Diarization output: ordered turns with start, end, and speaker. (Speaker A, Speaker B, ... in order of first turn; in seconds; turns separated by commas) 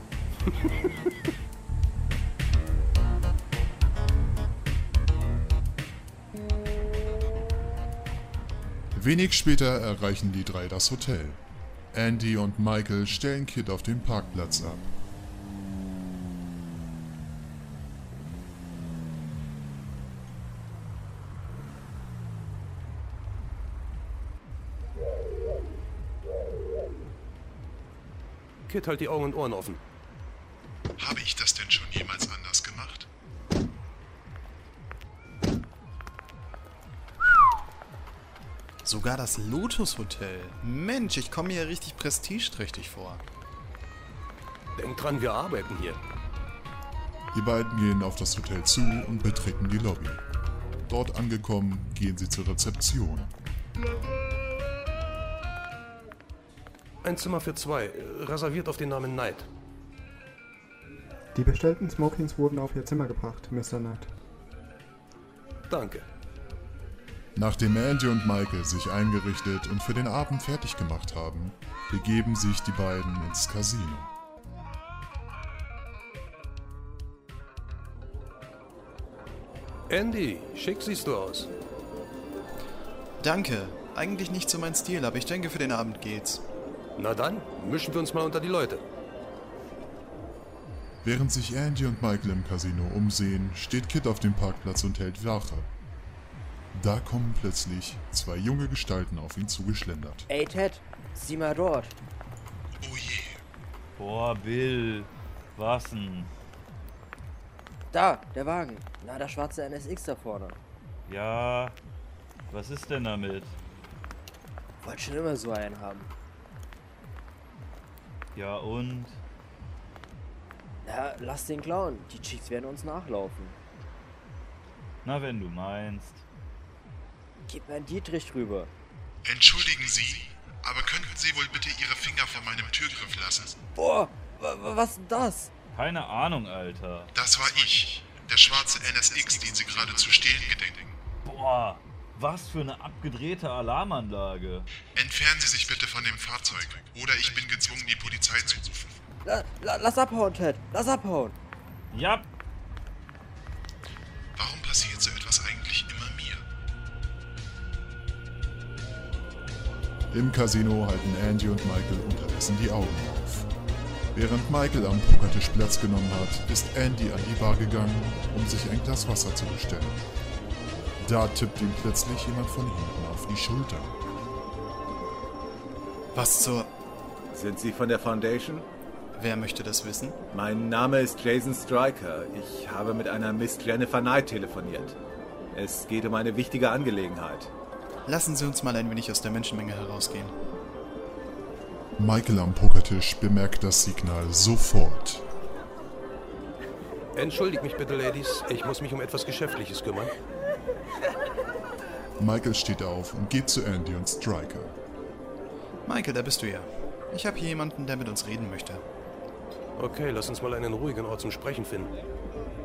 Speaker A: 0.5-0.7, Speaker B: 8.9-11.4, Speaker B: 11.9-14.9, Speaker A: 28.7-29.8, Speaker C: 31.0-33.0, Speaker B: 31.0-32.2, Speaker D: 38.8-43.2, Speaker A: 44.8-46.0, Speaker B: 47.3-50.2, Speaker B: 50.9-53.3, Speaker A: 57.0-59.5, Speaker E: 61.3-64.1, Speaker A: 65.7-66.0, Speaker B: 67.3-74.1, Speaker A: 79.9-81.5, Speaker D: 83.2-86.4, Speaker A: 87.0-88.8, Speaker B: 91.0-95.7, Speaker B: 96.7-100.2, Speaker F: 100.3-102.0, Speaker B: 102.8-103.3, Speaker C: 102.8-103.3, Speaker G: 104.0-106.3, Speaker F: 107.9-110.6, Speaker G: 111.1-111.8, Speaker G: 112.5-113.5, Speaker F: 114.8-116.1, Speaker G: 118.3-119.2, Speaker F: 120.8-123.5, Speaker G: 125.0-126.2, Speaker F: 127.5-128.7, Speaker B: 129.2-133.4, Speaker C: 129.2-133.5, Speaker F: 133.7-135.5, Speaker G: 135.7-137.1, Speaker B: 137.1-140.9, Speaker C: 137.3-140.9, Speaker G: 141.2-144.7, Speaker B: 144.9-148.9, Speaker C: 145.0-145.3, Speaker C: 146.4-148.6, Speaker F: 149.2-151.3, Speaker G: 151.9-152.2, Speaker B: 154.4-156.4, Speaker C: 154.4-156.4, Speaker B: 160.1-163.5, Speaker B: 164.1-170.0, Speaker B: 171.0-173.9, Speaker D: 176.1-176.7, Speaker H: 177.3-178.7, Speaker D: 179.1-180.2, Speaker H: 180.3-185.0, Speaker H: 185.5-187.5, Speaker D: 188.1-190.3, Speaker B: 192.0-195.2, Speaker A: 197.1-200.1, Speaker B: 202.2-204.8, Speaker D: 205.8-208.8, Speaker A: 209.8-211.9